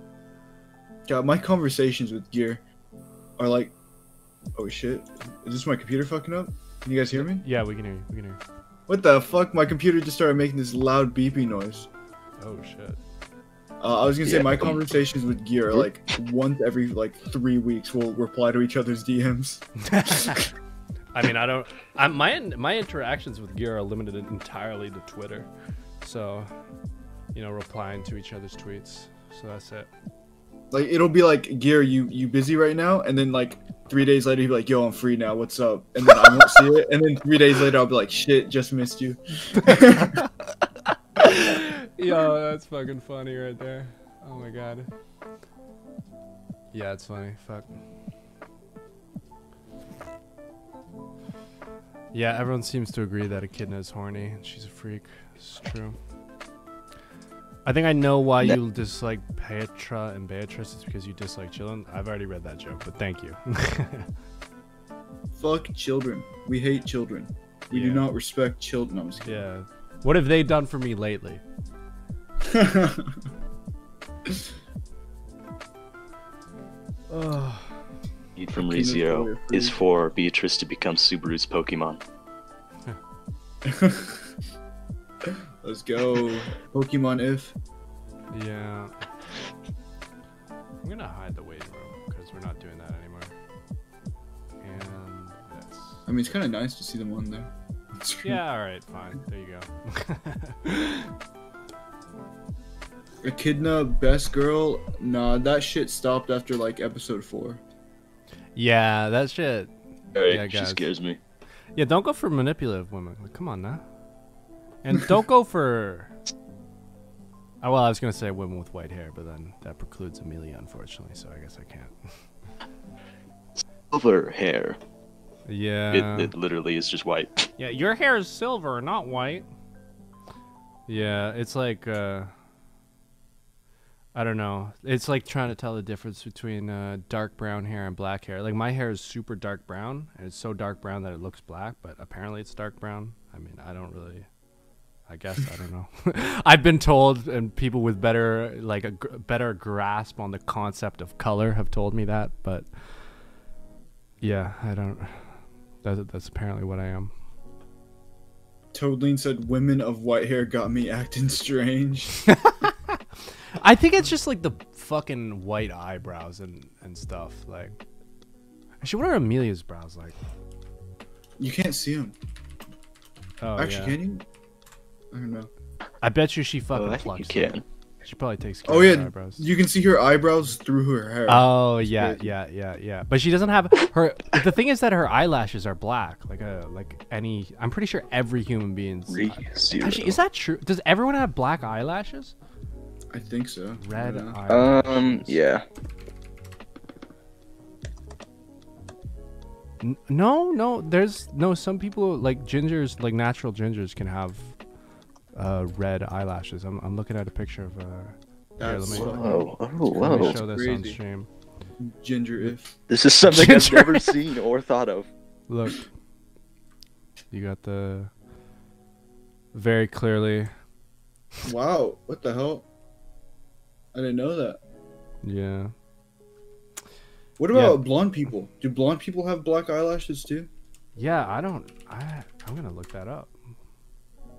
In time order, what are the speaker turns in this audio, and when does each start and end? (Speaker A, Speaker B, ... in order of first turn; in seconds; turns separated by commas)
Speaker A: 1.1-2.6, Speaker A: 3.4-3.7, Speaker A: 4.6-7.4, Speaker B: 7.1-8.4, Speaker A: 8.9-11.9, Speaker B: 12.4-13.0, Speaker A: 13.8-19.6, Speaker C: 14.2-14.8, Speaker B: 19.9-20.4, Speaker B: 21.1-25.5, Speaker B: 26.0-26.5, Speaker B: 27.3-29.9, Speaker A: 30.7-40.2, Speaker B: 39.7-40.3, Speaker B: 41.2-44.9, Speaker B: 46.7-47.8, Speaker B: 52.1-56.0, Speaker B: 57.6-64.1, Speaker A: 65.3-69.4, Speaker B: 67.7-68.1, Speaker B: 69.2-71.4, Speaker A: 72.5-73.2, Speaker A: 77.1-77.7, Speaker C: 78.4-82.0, Speaker A: 78.5-79.8, Speaker A: 83.6-84.2, Speaker A: 85.6-87.5, Speaker B: 88.3-88.9, Speaker B: 90.8-93.3, Speaker B: 94.6-96.0, Speaker A: 96.0-98.4, Speaker B: 98.2-101.1, Speaker A: 103.2-107.6, Speaker B: 108.5-109.7, Speaker C: 110.1-111.2, Speaker B: 110.2-110.9, Speaker B: 111.7-113.8, Speaker B: 114.8-116.1, Speaker B: 117.6-122.1, Speaker C: 123.9-124.8, Speaker B: 125.5-126.3, Speaker C: 125.9-127.4, Speaker B: 127.6-129.4, Speaker B: 130.9-132.3, Speaker B: 134.1-144.3, Speaker B: 145.1-152.7, Speaker B: 154.2-157.1, Speaker A: 158.7-162.1, Speaker B: 162.3-163.0, Speaker B: 163.6-167.8, Speaker B: 168.8-170.2, Speaker A: 171.4-172.1, Speaker B: 173.4-174.0, Speaker A: 173.6-174.2, Speaker A: 175.1-175.5, Speaker B: 176.0-179.4, Speaker C: 176.7-177.6, Speaker A: 178.7-182.3, Speaker B: 181.3-192.3, Speaker C: 189.1-190.2, Speaker A: 193.1-194.4, Speaker B: 193.8-195.4, Speaker C: 194.5-195.6, Speaker B: 199.8-204.5, Speaker B: 205.3-211.3, Speaker A: 208.6-211.0, Speaker C: 208.9-210.4, Speaker A: 211.8-212.7, Speaker C: 212.9-215.1, Speaker B: 213.3-214.1, Speaker B: 215.5-215.9, Speaker B: 217.3-218.1, Speaker B: 219.5-220.5, Speaker A: 221.4-222.7, Speaker A: 223.9-224.6, Speaker B: 225.2-225.7, Speaker A: 227.4-230.5, Speaker B: 227.5-227.8, Speaker B: 230.9-233.3